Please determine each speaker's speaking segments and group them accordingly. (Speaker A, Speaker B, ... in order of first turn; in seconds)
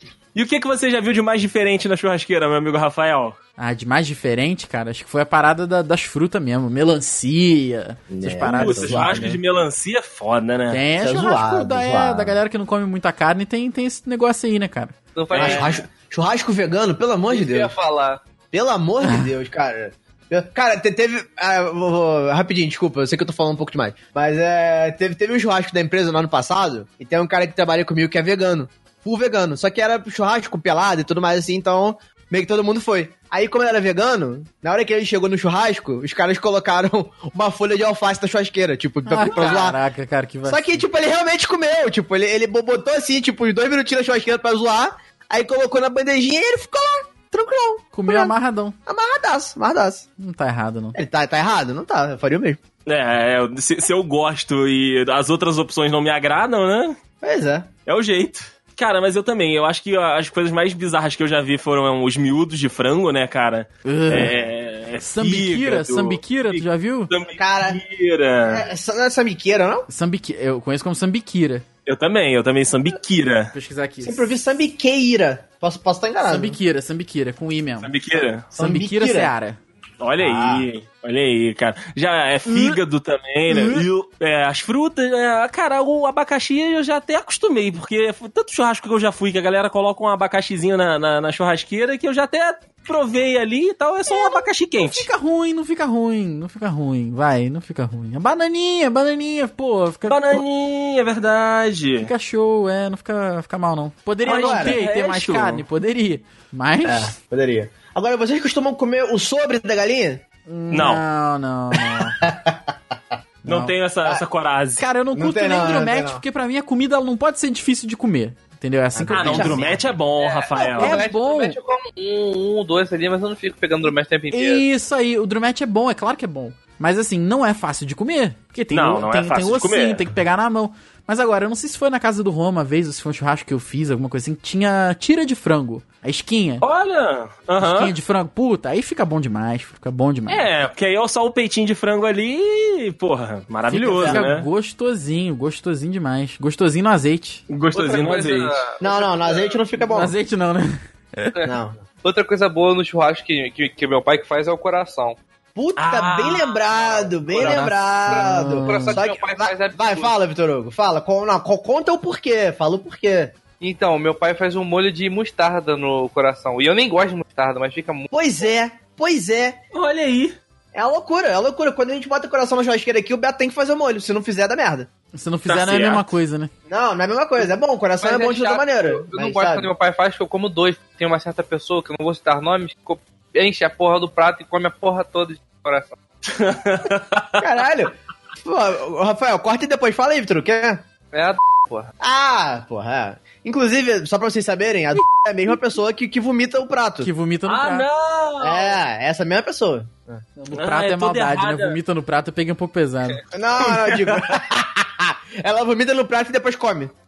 Speaker A: 0.3-3.4, 8.5-10.8, 15.3-15.7, 52.9-57.0, 57.9-68.7, 71.8-73.5, 77.8-78.5, 80.0-95.1, 100.1-102.1, 104.2-105.6, 110.7-111.0, 113.5-114.8, 119.1-121.0, 128.7-130.0, 136.6-137.9, 140.3-144.5, 147.5-148.6, 155.8-156.7, 157.3-157.6, 169.7-170.3, 175.5-176.1, 186.3-187.4, 197.4-198.8, 200.5-201.8, 203.6-204.3
Speaker B: 3.6-9.4, 10.7-14.9, 39.0-40.8, 47.9-48.8, 50.2-51.0, 63.8-64.3, 65.0-67.1, 69.9-71.6, 73.5-74.3, 76.2-77.9, 78.5-79.6, 82.5-82.8, 83.5-83.8, 94.1-100.4, 102.0-107.1, 110.5-112.2, 113.5-113.7, 114.8-119.7, 120.8-121.6, 124.3-136.6, 137.6-140.4, 143.7-147.4, 149.8-151.3, 157.5-159.0, 175.1-176.5, 197.0-197.8, 200.4-203.2
Speaker C: 8.1-9.3, 11.0-12.4, 15.3-17.7, 18.5-39.8, 40.5-48.3, 48.9-50.1, 50.9-52.6, 57.2-57.7, 67.3-67.8, 68.4-69.9, 74.0-76.6, 78.5-79.3, 80.2-80.7, 104.2-104.8, 106.8-110.2, 111.7-112.7, 115.1-116.2, 118.9-119.9, 143.9-144.2, 148.8-150.1, 151.4-151.8, 155.5-163.3, 168.1-169.6, 170.7-174.9, 176.7-179.7, 187.4-190.8, 192.0-197.1, 198.4-200.2, 203.3-206.9
Speaker D: 15.1-15.8, 17.3-18.2, 120.2-124.6, 147.7-149.6, 152.0-155.2, 157.3-160.1, 163.6-168.1, 178.0-186.0, 191.1-191.9